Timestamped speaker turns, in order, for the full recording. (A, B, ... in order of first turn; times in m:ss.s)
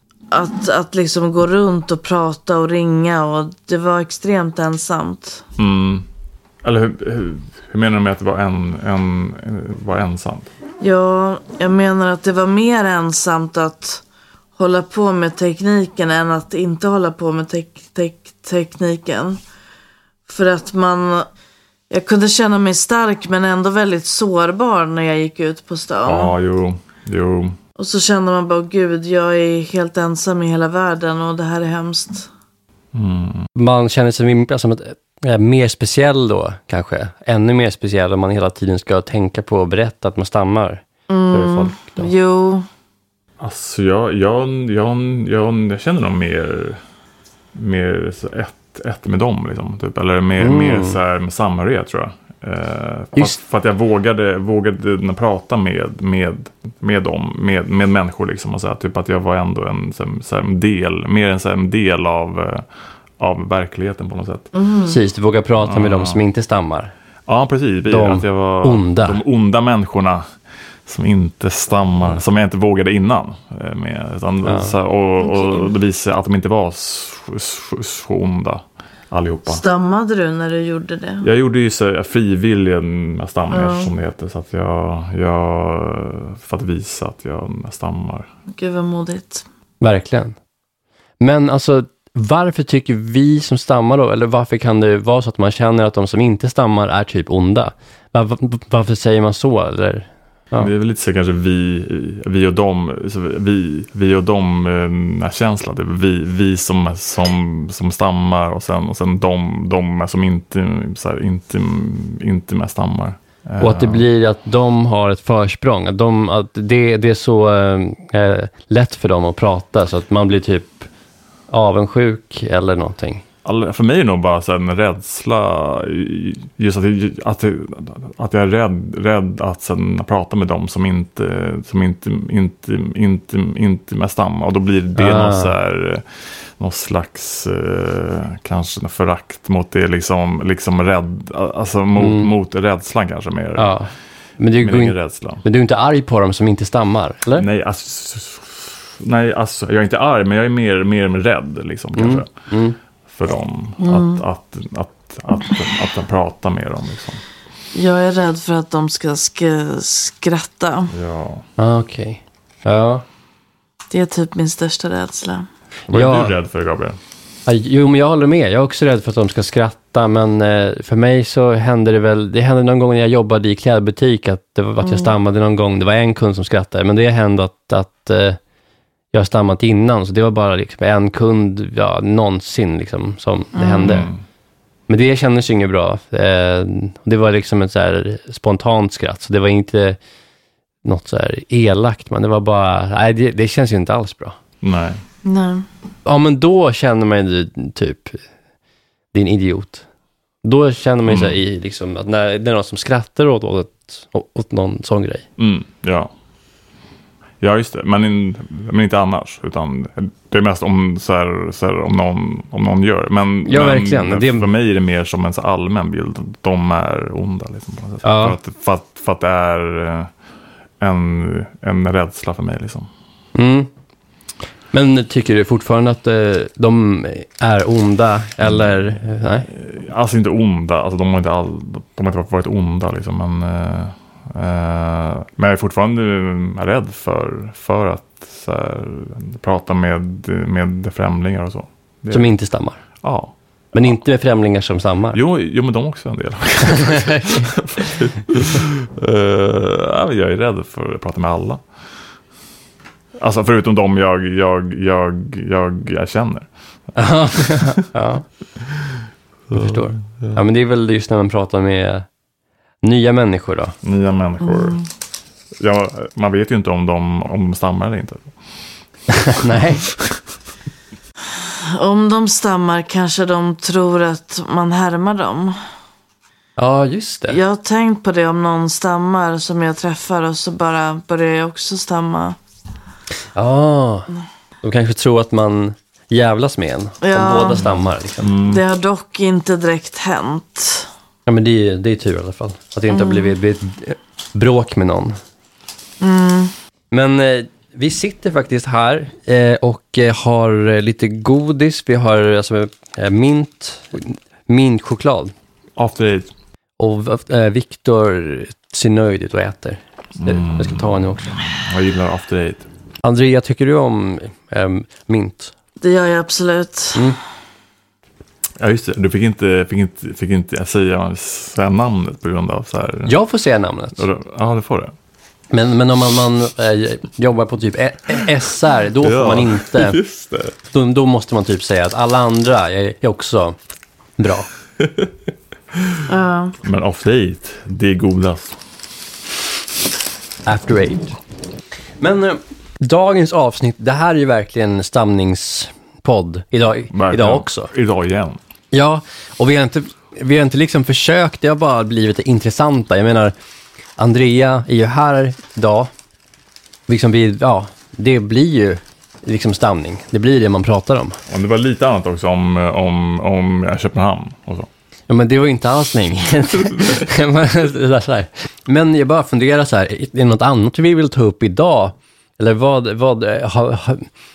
0:00.3-0:05.4 A
0:05.6-0:06.0 B
0:06.6-0:10.5 B
0:10.8-0:14.0 A
0:14.6-0:19.4 A
0:20.3-0:21.3 A
0:21.9-0:26.3 A
0:26.0-0:27.6 B
0:27.8-0:32.3 A
0:32.9-0:33.5 B
0:33.6-0:42.1 C
0:41.1-0:42.6 A
0:41.4-0:41.7 B
0:43.4-0:46.8 B
0:47.5-1:02.6 B
0:50.4-0:51.0 C
1:03.2-1:04.5 B
1:04.5-1:05.0 A
1:04.8-1:06.9 C
1:05.6-1:06.2 B
1:07.2-1:10.2 B
1:07.9-1:09.2 C
1:10.8-1:19.6 B
1:14.4-1:14.7 C
1:15.2-1:15.7 A
1:19.4-1:21.3 A
1:21.2-1:28.3 B
1:23.5-1:23.9 A
1:28.5-1:29.4 A
1:29.8-1:30.4 C
1:31.2-1:40.7 C
1:40.6-1:54.0 B
1:53.6-2:00.9 C
2:01.5-2:03.2 C
2:03.4-2:16.0 B
2:15.0-2:15.5 C
2:16.6-2:23.7 B
2:22.0-2:22.3 C
2:23.6-2:27.5 C
2:24.6-2:25.4 B
2:27.4-2:32.3 B
2:31.9-2:32.8 C
2:33.1-2:37.2 B
2:33.8-2:34.2 A
2:37.7-2:40.9 A
2:40.9-2:41.4 B
2:41.6-2:43.0 C
2:43.9-2:45.5 A
2:45.9-2:47.0 B
2:45.9-2:46.3 C
2:47.5-2:58.4 C
2:54.8-2:55.1 A
2:59.1-3:04.1 C
3:03.5-3:04.0 A
3:03.8-3:04.2 B
3:04.9-3:10.0 C
3:10.8-3:14.4 C
3:14.6-3:15.0 B
3:15.2-3:15.7 A
3:16.0-3:18.2 C
3:19.1-3:19.8 C
3:20.4-3:25.2 C
3:21.0-3:21.4 B
3:25.4-3:26.1 B
3:27.4-3:40.1 B
3:33.4-3:34.5 C
3:38.0-3:38.4 C
3:40.8-3:42.9 B
3:43.3-3:43.7 C
3:44.7-3:49.5 C
3:48.4-3:48.7 B
3:49.5-4:02.3 B
4:02.1-4:02.8 C
4:03.0-4:03.9 B
4:03.7-4:05.2 C
4:05.1-4:11.6 B
4:06.6-4:07.9 C
4:13.2-4:16.5 B
4:17.0-4:18.2 C
4:17.3-4:17.8 B
4:19.5-4:22.0 C
4:19.5-4:20.4 B
4:22.8-4:23.8 C
4:23.8-4:24.8 B
4:25.6-4:28.3 B
4:29.1-4:29.9 C
4:29.8-4:30.2 B
4:31.4-4:35.6 A
4:36.6-4:37.4 C
4:37.3-4:42.4 A
4:43.3-4:44.1 C
4:44.6-4:48.3 C
4:47.0-4:47.7 A
4:47.6-4:48.6 B
4:48.4-4:50.9 A
4:51.2-4:55.2 C
4:52.9-4:53.3 A
4:56.0-4:56.5 A
4:56.9-5:05.3 C
5:05.8-5:06.3 B
5:06.8-5:11.4 C
5:10.2-5:12.7 B
5:13.0-5:15.5 C
5:15.8-5:17.1 A
5:18.6-5:23.2 B
5:23.0-5:24.0 C
5:24.0-5:24.9 B
5:25.5-5:30.0 C
5:29.0-5:30.5 B
5:30.7-5:33.6 C
5:34.2-5:34.5 C
5:34.8-5:35.1 B
5:36.1-5:36.6 A
5:36.6-5:38.6 B
5:40.4-5:41.2 C
5:42.0-5:47.7 C
5:46.9-5:48.4 B
5:48.7-5:53.3 C
5:54.0-5:55.9 C
5:56.9-6:01.2 C
6:01.3-6:04.7 B
6:05.1-6:14.1 C
6:06.6-6:07.1 B